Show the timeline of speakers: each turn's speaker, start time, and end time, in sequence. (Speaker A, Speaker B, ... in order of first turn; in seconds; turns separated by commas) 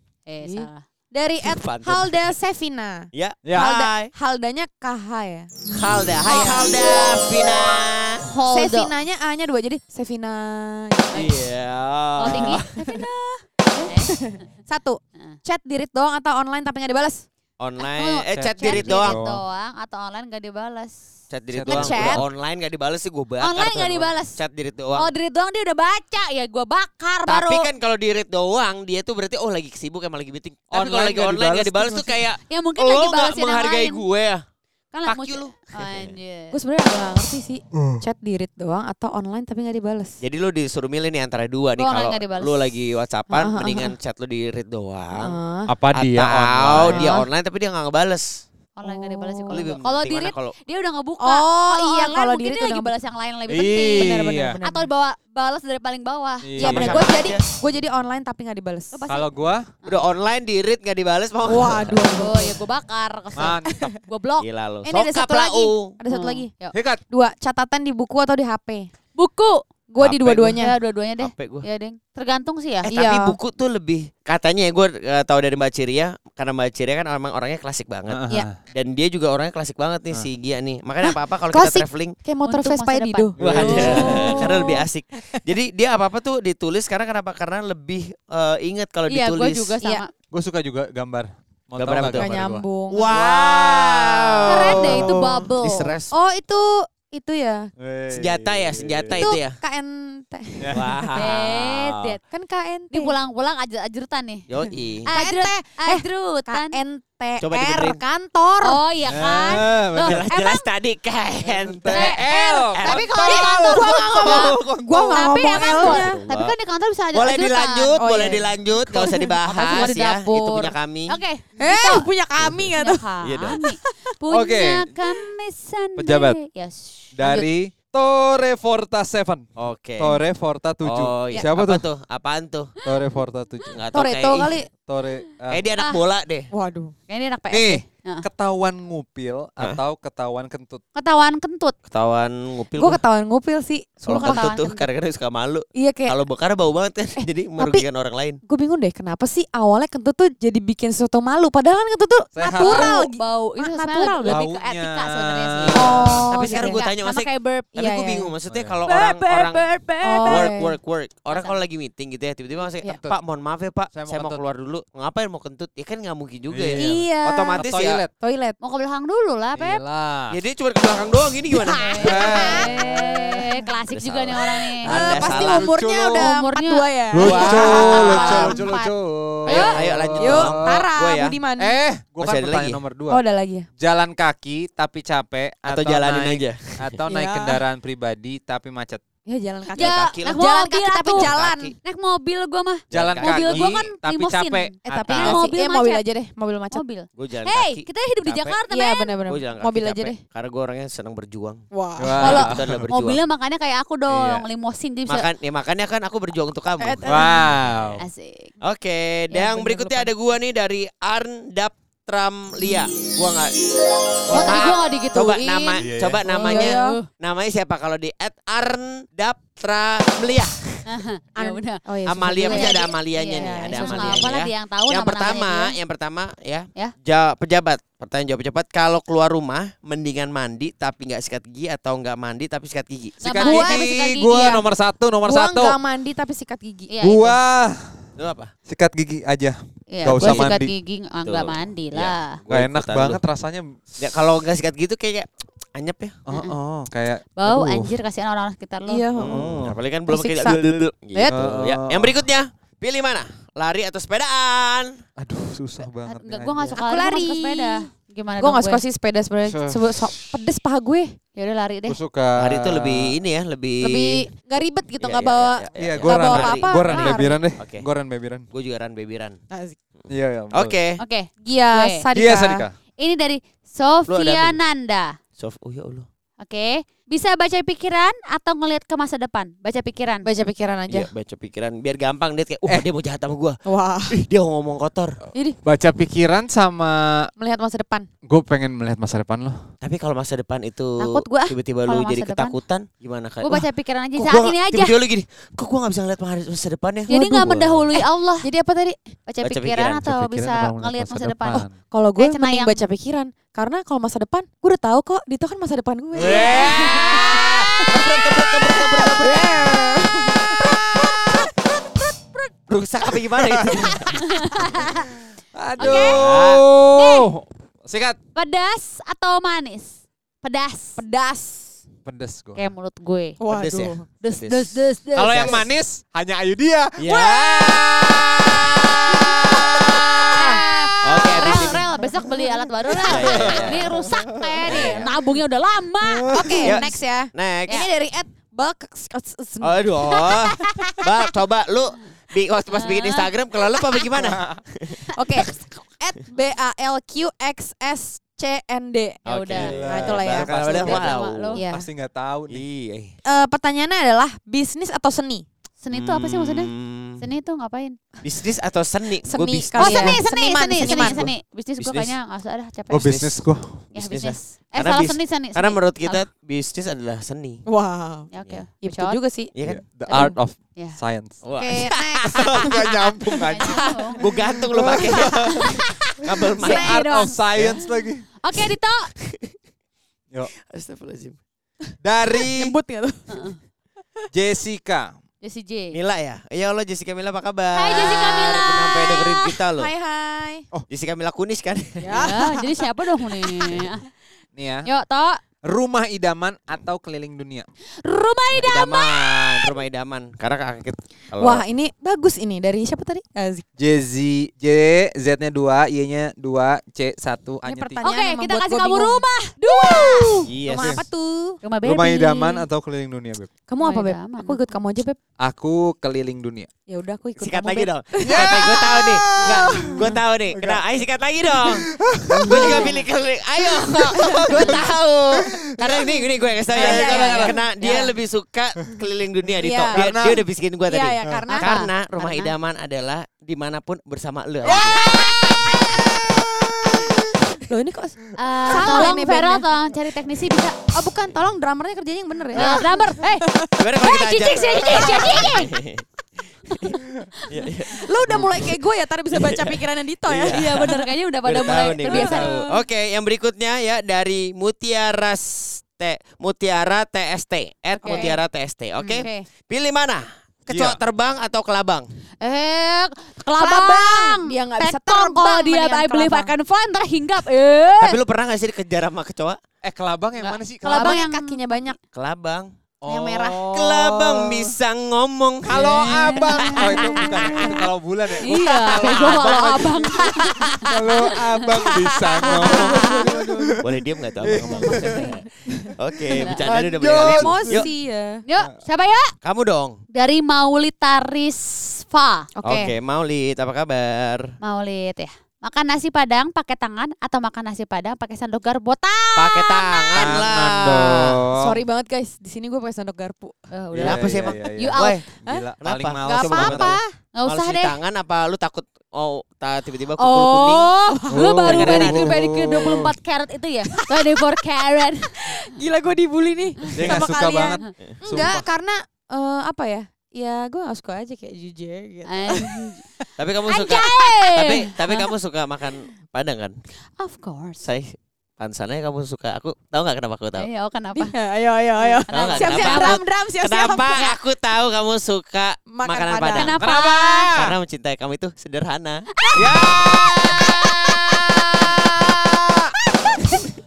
Speaker A: 0.2-0.8, Speaker B: 0.4-5.5, Speaker C: 1.4-2.2, Speaker C: 3.1-4.1, Speaker D: 3.4-3.8, Speaker C: 5.7-8.2, Speaker B: 6.2-6.8, Speaker A: 6.3-6.5, Speaker A: 8.2-8.9, Speaker B: 8.5-11.2, Speaker A: 11.1-11.4, Speaker C: 11.1-12.7, Speaker A: 12.2-13.2, Speaker B: 12.3-13.1, Speaker B: 13.8-17.2, Speaker A: 13.8-14.3, Speaker C: 17.6-19.2, Speaker A: 17.8-20.9, Speaker D: 18.3-19.4, Speaker C: 21.3-25.1, Speaker D: 21.5-22.2, Speaker B: 21.7-22.2, Speaker A: 23.4-24.4, Speaker A: 25.0-27.7, Speaker C: 27.3-34.4, Speaker D: 30.7-32.2, Speaker A: 32.4-34.0, Speaker A: 34.9-36.6, Speaker C: 35.0-36.2, Speaker B: 36.5-40.2, Speaker D: 37.7-38.0, Speaker C: 40.2-45.4, Speaker A: 41.8-42.7, Speaker B: 43.3-43.9, Speaker B: 45.2-45.8, Speaker D: 45.7-47.1, Speaker C: 45.9-48.4, Speaker B: 46.8-47.3, Speaker A: 48.8-57.1, Speaker B: 48.8-49.8, Speaker C: 49.5-50.6, Speaker B: 51.2-52.9, Speaker D: 53.5-54.6, Speaker B: 53.9-54.9, Speaker D: 56.4-57.1, Speaker B: 56.6-59.1, Speaker C: 56.7-57.5, Speaker A: 58.9-59.3, Speaker D: 59.1-59.6, Speaker C: 59.9-62.0, Speaker B: 61.4-62.7, Speaker A: 62.1-64.5, Speaker D: 63.4-63.9, Speaker C: 64.4-66.0, Speaker B: 64.8-66.5, Speaker A: 66.1-66.8, Speaker D: 66.7-67.0, Speaker B: 67.1-68.9, Speaker A: 69.2-69.6, Speaker B: 69.9-70.8, Speaker C: 70.0-70.6, Speaker A: 70.5-72.9, Speaker C: 71.2-71.7, Speaker B: 72.8-73.4, Speaker C: 72.9-82.2, Speaker D: 78.1-78.6, Speaker B: 81.0-84.8, Speaker A: 82.4-84.5, Speaker D: 83.3-84.1, Speaker C: 83.4-89.8, Speaker A: 89.1-90.1, Speaker D: 90.3-95.5, Speaker C: 91.8-92.3, Speaker B: 92.1-93.2, Speaker C: 92.9-96.1, Speaker A: 94.5-95.9, Speaker B: 96.1-97.7, Speaker D: 97.8-99.3, Speaker C: 98.1-99.5, Speaker B: 99.2-100.8, Speaker D: 100.6-100.9, Speaker C: 100.7-102.2, Speaker A: 101.1-102.2, Speaker B: 102.3-103.2, Speaker A: 102.9-104.5, Speaker C: 104.5-105.1, Speaker A: 105.1-106.8, Speaker B: 105.1-108.8, Speaker C: 107.4-108.0, Speaker A: 108.6-110.7, Speaker D: 109.0-110.2, Speaker C: 110.0-112.2, Speaker D: 111.4-115.2, Speaker A: 111.9-114.6, Speaker C: 112.7-114.6, Speaker B: 113.3-116.2, Speaker A: 115.1-118.2, Speaker C: 115.6-116.5, Speaker C: 117.1-121.2, Speaker B: 118.0-118.5, Speaker A: 118.9-122.1, Speaker B: 119.0-119.3, Speaker B: 121.6-123.1, Speaker C: 122.3-123.6, Speaker A: 122.7-127.5, Speaker B: 123.6-124.0, Speaker D: 124.3-124.9, Speaker D: 126.0-126.4, Speaker D: 127.2-129.4, Speaker C: 129.6-130.2, Speaker D: 130.0-131.8, Speaker C: 130.8-132.7, Speaker D: 132.8-133.8, Speaker C: 133.7-134.6, Speaker B: 133.9-134.7, Speaker D: 134.8-135.7, Speaker C: 135.5-136.5, Speaker A: 135.8-136.0, Speaker B: 136.5-136.9, Speaker A: 137.1-138.3, Speaker D: 137.5-140.8, Speaker A: 140.9-141.7, Speaker C: 141.9-143.0, Speaker B: 142.7-144.1, Speaker C: 144.0-148.4, Speaker A: 144.1-144.9, Speaker B: 145.8-146.2, Speaker B: 147.2-147.8, Speaker B: 148.5-154.4, Speaker D: 152.3-152.9, Speaker A: 152.6-157.9, Speaker D: 154.2-156.1, Speaker B: 155.7-156.8, Speaker C: 156.3-159.7, Speaker B: 157.8-158.3, Speaker D: 158.5-158.8, Speaker B: 158.8-160.8, Speaker A: 159.5-160.6, Speaker C: 160.2-168.0, Speaker A: 161.3-161.6, Speaker D: 163.9-164.4, Speaker D: 166.5-168.1, Speaker B: 166.8-168.6, Speaker A: 168.6-169.8, Speaker D: 169.5-170.3, Speaker C: 170.3-172.3, Speaker A: 171.5-175.4, Speaker D: 172.0-172.9, Speaker B: 172.3-172.7, Speaker C: 173.9-175.7, Speaker B: 174.8-178.6, Speaker D: 175.4-176.3, Speaker A: 176.2-178.9, Speaker D: 177.1-180.8, Speaker C: 177.2-178.5, Speaker C: 179.4-181.4, Speaker B: 179.5-181.8, Speaker D: 181.6-183.2, Speaker C: 182.2-182.8, Speaker B: 183.1-183.7, Speaker D: 183.8-189.0, Speaker C: 185.7-186.9, Speaker B: 187.1-187.6, Speaker B: 189.3-191.7, Speaker C: 189.7-190.4, Speaker A: 189.8-196.0, Speaker C: 191.1-191.8, Speaker C: 192.9-193.8, Speaker D: 192.9-194.7, Speaker B: 194.8-196.8, Speaker C: 194.9-195.5, Speaker A: 196.7-199.3, Speaker C: 197.2-198.6, Speaker B: 198.7-200.2, Speaker C: 199.3-201.6, Speaker B: 201.7-202.6, Speaker D: 202.0-202.8, Speaker A: 202.2-205.3, Speaker C: 202.3-203.2, Speaker D: 204.1-204.4, Speaker C: 205.1-207.2, Speaker B: 206.8-207.5, Speaker D: 207.0-208.0, Speaker A: 208.0-208.5, Speaker C: 208.6-213.5, Speaker A: 209.3-210.1, Speaker C: 214.3-220.8, Speaker A: 214.3-217.1, Speaker D: 215.8-216.2, Speaker B: 216.3-217.0, Speaker A: 220.9-221.8, Speaker B: 221.3-224.3, Speaker C: 222.1-233.8, Speaker A: 222.4-225.7, Speaker A: 233.2-234.7, Speaker D: 233.2-235.8, Speaker B: 233.4-233.7, Speaker B: 235.2-236.9, Speaker A: 236.9-237.4, Speaker D: 237.0-237.7, Speaker C: 238.2-238.5, Speaker D: 238.7-240.7, Speaker A: 239.9-242.4, Speaker C: 240.0-240.5, Speaker C: 241.2-243.2, Speaker D: 242.5-244.0, Speaker C: 244.0-246.2, Speaker D: 246.3-247.9, Speaker A: 246.3-246.6, Speaker A: 247.3-249.1, Speaker B: 248.9-250.6, Speaker C: 249.1-254.9, Speaker B: 251.1-251.4, Speaker D: 251.3-252.2, Speaker D: 255.2-256.7, Speaker A: 256.0-258.8, Speaker B: 256.8-261.1, Speaker D: 259.4-260.1, Speaker A: 261.4-262.0, Speaker D: 261.9-263.1, Speaker C: 262.4-264.2, Speaker B: 263.8-267.4, Speaker C: 265.0-267.9, Speaker D: 265.8-268.5, Speaker C: 268.5-269.4, Speaker B: 269.5-269.8, Speaker D: 270.1-270.8, Speaker C: 270.5-270.9, Speaker A: 271.0-272.1, Speaker B: 271.4-272.7, Speaker D: 272.1-272.7, Speaker A: 273.0-275.1, Speaker C: 274.1-274.6, Speaker C: 275.4-276.1, Speaker A: 276.4-280.3, Speaker B: 280.2-281.1, Speaker C: 280.9-283.5, Speaker B: 283.6-284.2, Speaker C: 284.1-285.2, Speaker D: 285.6-287.3, Speaker B: 287.4-288.1, Speaker D: 288.2-289.6, Speaker C: 289.8-293.6, Speaker B: 291.0-291.5, Speaker A: 291.9-292.6, Speaker A: 293.4-295.0, Speaker C: 294.1-297.9, Speaker A: 297.1-298.5, Speaker B: 297.1-299.1, Speaker A: 299.3-301.6, Speaker C: 299.4-300.0, Speaker D: 300.0-301.7, Speaker B: 301.5-311.5, Speaker A: 302.2-302.9, Speaker D: 306.1-307.6, Speaker C: 306.2-309.7, Speaker C: 312.7-314.2, Speaker D: 313.5-313.9, Speaker A: 314.1-315.1, Speaker D: 315.5-318.2, Speaker A: 315.8-316.3, Speaker C: 315.9-316.6, Speaker A: 316.9-317.3, Speaker A: 318.4-321.0, Speaker B: 321.0-321.8, Speaker D: 322.0-322.7, Speaker A: 322.5-323.5, Speaker B: 323.4-324.0, Speaker C: 323.5-325.7, Speaker A: 324.1-325.6, Speaker D: 325.1-328.4, Speaker C: 327.0-330.3, Speaker A: 327.1-327.4, Speaker D: 329.2-329.9, Speaker B: 329.5-331.5, Speaker A: 330.3-336.3, Speaker C: 331.0-331.8, Speaker C: 333.0-333.9, Speaker D: 333.3-334.4, Speaker C: 334.6-335.1, Speaker D: 336.1-336.8, Speaker B: 336.2-341.1, Speaker C: 336.6-337.8, Speaker C: 339.6-345.5, Speaker A: 342.7-343.3, Speaker D: 344.2-344.6, Speaker B: 345.1-349.2, Speaker C: 349.2-351.6, Speaker A: 349.3-349.8, Speaker D: 349.6-351.1, Speaker B: 349.8-351.9, Speaker A: 351.1-351.6, Speaker D: 351.7-352.6, Speaker C: 352.5-353.1, Speaker B: 353.2-355.4, Speaker A: 355.8-358.2, Speaker C: 355.9-357.2, Speaker C: 358.2-360.2, Speaker B: 359.2-361.2, Speaker A: 359.8-363.1, Speaker C: 360.8-362.1, Speaker D: 362.9-363.9, Speaker C: 363.1-367.6, Speaker A: 363.9-366.2, Speaker B: 367.7-368.3, Speaker A: 368.3-369.2, Speaker B: 368.8-369.5, Speaker C: 369.5-370.2, Speaker D: 369.6-371.4, Speaker A: 370.1-371.0, Speaker C: 371.4-373.0, Speaker B: 371.6-372.7, Speaker D: 372.4-375.2, Speaker A: 373.4-374.2, Speaker B: 373.6-374.1, Speaker C: 374.2-377.0, Speaker B: 374.9-375.7, Speaker A: 375.6-376.0, Speaker B: 376.6-377.1, Speaker A: 376.6-377.9, Speaker D: 376.7-378.2, Speaker C: 377.6-377.8, Speaker A: 378.4-379.1, Speaker C: 380.7-381.4, Speaker D: 382.0-382.8, Speaker B: 382.4-383.5, Speaker A: 383.3-383.6, Speaker D: 384.3-385.1, Speaker A: 385.4-385.9, Speaker C: 385.9-389.9, Speaker A: 387.7-389.4, Speaker B: 389.6-390.7, Speaker C: 390.9-392.2, Speaker B: 392.0-392.8, Speaker A: 392.1-394.1, Speaker D: 394.6-394.9, Speaker A: 394.9-395.4, Speaker D: 395.6-397.7, Speaker A: 398.0-399.7, Speaker C: 398.5-401.6, Speaker B: 401.4-403.6, Speaker D: 403.8-408.1, Speaker B: 407.6-411.6, Speaker A: 408.0-411.0, Speaker C: 410.5-410.9, Speaker D: 410.8-411.0, Speaker A: 411.6-412.7, Speaker D: 411.8-413.5, Speaker B: 413.7-415.2, Speaker A: 413.8-414.7, Speaker D: 415.4-416.7, Speaker B: 416.9-420.2, Speaker C: 417.4-435.7, Speaker D: 418.2-418.8, Speaker D: 420.5-420.8, Speaker D: 421.9-422.9, Speaker B: 422.5-423.0, Speaker B: 424.0-424.7, Speaker D: 426.7-427.6, Speaker B: 426.8-428.1, Speaker B: 429.6-430.0, Speaker D: 429.9-430.4, Speaker B: 430.9-431.7, Speaker A: 431.5-432.6, Speaker B: 434.6-435.9, Speaker B: 437.6-439.7, Speaker A: 438.4-440.8, Speaker B: 440.9-445.7, Speaker C: 442.5-442.9, Speaker A: 442.5-443.4, Speaker C: 443.8-446.0, Speaker A: 444.1-445.7, Speaker A: 446.7-446.9, Speaker C: 447.5-448.8, Speaker B: 447.9-451.0, Speaker C: 449.4-462.1, Speaker A: 450.4-452.6, Speaker B: 452.0-452.8, Speaker A: 458.0-458.4, Speaker B: 458.0-458.4, Speaker B: 459.0-459.4, Speaker D: 460.7-461.0, Speaker A: 462.4-468.2, Speaker B: 463.6-466.5, Speaker C: 468.0-469.6, Speaker D: 469.8-471.2, Speaker A: 470.4-471.9, Speaker B: 470.8-472.0, Speaker C: 472.1-477.7, Speaker B: 473.1-474.4, Speaker D: 475.7-483.9, Speaker A: 475.8-477.3, Speaker B: 476.7-477.8, Speaker A: 478.4-481.0, Speaker C: 478.5-479.7, Speaker B: 479.4-479.6, Speaker A: 481.6-483.1, Speaker B: 481.9-483.8, Speaker C: 482.4-483.1, Speaker C: 483.8-485.4, Speaker D: 484.4-485.2, Speaker A: 484.8-485.3, Speaker C: 486.0-487.9, Speaker A: 486.4-486.7, Speaker D: 486.6-487.9, Speaker B: 487.2-488.4, Speaker A: 488.4-489.3, Speaker C: 489.4-489.9, Speaker A: 490.1-492.5, Speaker B: 492.6-492.9, Speaker C: 492.6-494.4, Speaker A: 494.6-500.4, Speaker C: 499.4-501.4, Speaker D: 500.2-501.8, Speaker B: 501.6-503.5, Speaker A: 503.7-505.2, Speaker D: 503.9-507.0, Speaker C: 504.0-505.2, Speaker B: 505.5-505.7, Speaker C: 505.8-510.9, Speaker B: 506.2-507.1, Speaker A: 507.4-507.9, Speaker B: 510.2-511.5, Speaker A: 510.5-515.6, Speaker D: 511.3-513.1, Speaker C: 511.6-512.3, Speaker B: 514.0-514.5, Speaker B: 515.4-523.2, Speaker D: 517.0-518.6, Speaker A: 522.2-523.0, Speaker C: 523.4-526.7, Speaker A: 523.7-525.3, Speaker B: 524.0-524.3, Speaker A: 527.2-527.8, Speaker C: 527.8-530.7, Speaker A: 530.5-531.4, Speaker B: 531.2-534.4, Speaker A: 532.2-533.2, Speaker C: 532.3-536.9, Speaker A: 534.1-534.4, Speaker B: 535.9-536.8, Speaker A: 536.5-537.5, Speaker D: 536.8-537.8, Speaker C: 537.5-539.2, Speaker B: 539.5-541.5, Speaker D: 539.6-542.8, Speaker B: 543.2-543.5